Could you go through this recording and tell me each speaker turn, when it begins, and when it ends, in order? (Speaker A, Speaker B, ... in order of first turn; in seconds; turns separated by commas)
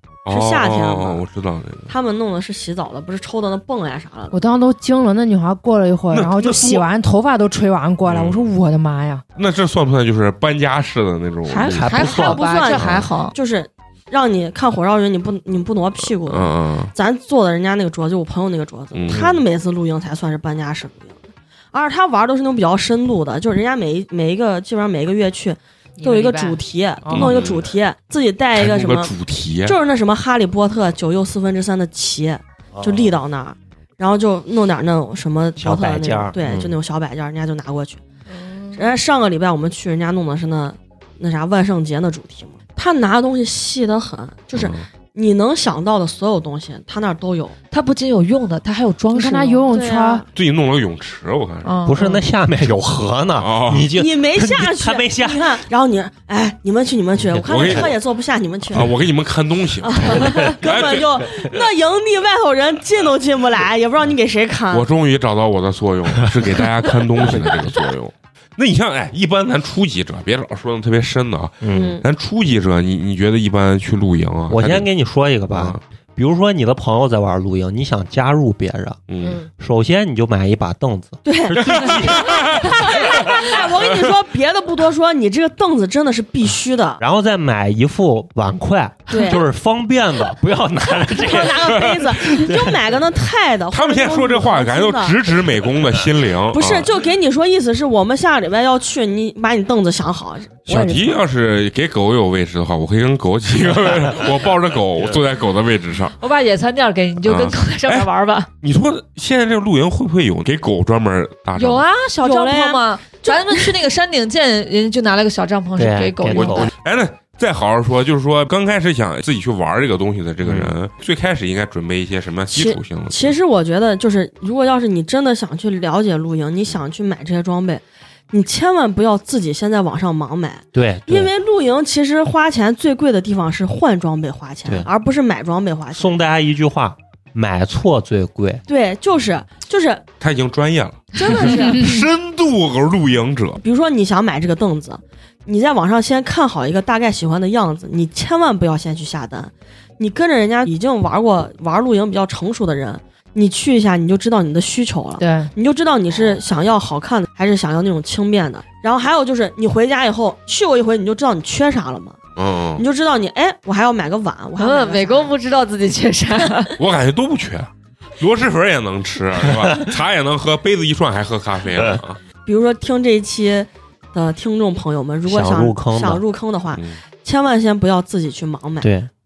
Speaker A: 0.2-1.9, Speaker B: 0.3-1.2, Speaker B: 1.9-4.4, Speaker C: 4.3-9.2, Speaker A: 6.1-6.9, Speaker A: 8.1-8.5, Speaker A: 9.3-12.0, Speaker D: 11.5-13.3, Speaker E: 11.6-12.6, Speaker B: 12.0-29.1, Speaker A: 12.8-13.1, Speaker A: 16.0-16.9, Speaker A: 18.9-19.3, Speaker C: 26.0-27.4, Speaker A: 27.1-27.7, Speaker A: 28.5-29.8, Speaker B: 29.6-38.0, Speaker E: 32.7-33.1, Speaker E: 35.6-36.4, Speaker D: 38.4-38.8, Speaker B: 38.7-47.5, Speaker A: 44.5-44.9, Speaker D: 47.7-49.8, Speaker C: 49.1-50.2, Speaker B: 49.7-50.3, Speaker A: 50.3-51.8, Speaker D: 51.6-52.2, Speaker E: 51.9-55.6, Speaker A: 53.4-53.9, Speaker B: 53.9-58.9, Speaker A: 57.4-58.0, Speaker A: 58.7-61.2, Speaker B: 59.8-64.9, Speaker A: 64.7-74.9, Speaker E: 67.2-67.6, Speaker E: 71.6-72.0, Speaker B: 71.7-72.0, Speaker E: 74.5-79.0, Speaker A: 75.5-75.8, Speaker A: 79.1-79.4, Speaker E: 79.5-82.5, Speaker B: 81.2-87.0, Speaker A: 81.6-84.1, Speaker E: 87.0-92.8, Speaker B: 89.1-89.4, Speaker B: 91.2-95.2, Speaker A: 93.7-96.9, Speaker B: 96.5-100.5, Speaker A: 100.7-106.1, Speaker C: 100.7-101.1, Speaker D: 106.2-108.5, Speaker A: 107.2-108.1, Speaker A: 108.6-111.8, Speaker D: 111.5-116.7, Speaker B: 112.2-113.8, Speaker E: 115.8-116.7, Speaker A: 116.3-123.3, Speaker E: 120.4-120.7, Speaker B: 122.5-136.2, Speaker E: 130.7-131.3, Speaker E: 135.9-138.6, Speaker B: 138.7-140.0, Speaker A: 140.2-143.6, Speaker B: 141.1-141.9, Speaker B: 143.6-162.2, Speaker C: 155.2-155.5, Speaker A: 162.3-162.8, Speaker B: 162.8-165.3, Speaker D: 164.6-166.8, Speaker A: 166.8-172.2, Speaker B: 172.4-178.9, Speaker E: 175.3-176.2, Speaker A: 176.7-177.0, Speaker E: 178.8-179.1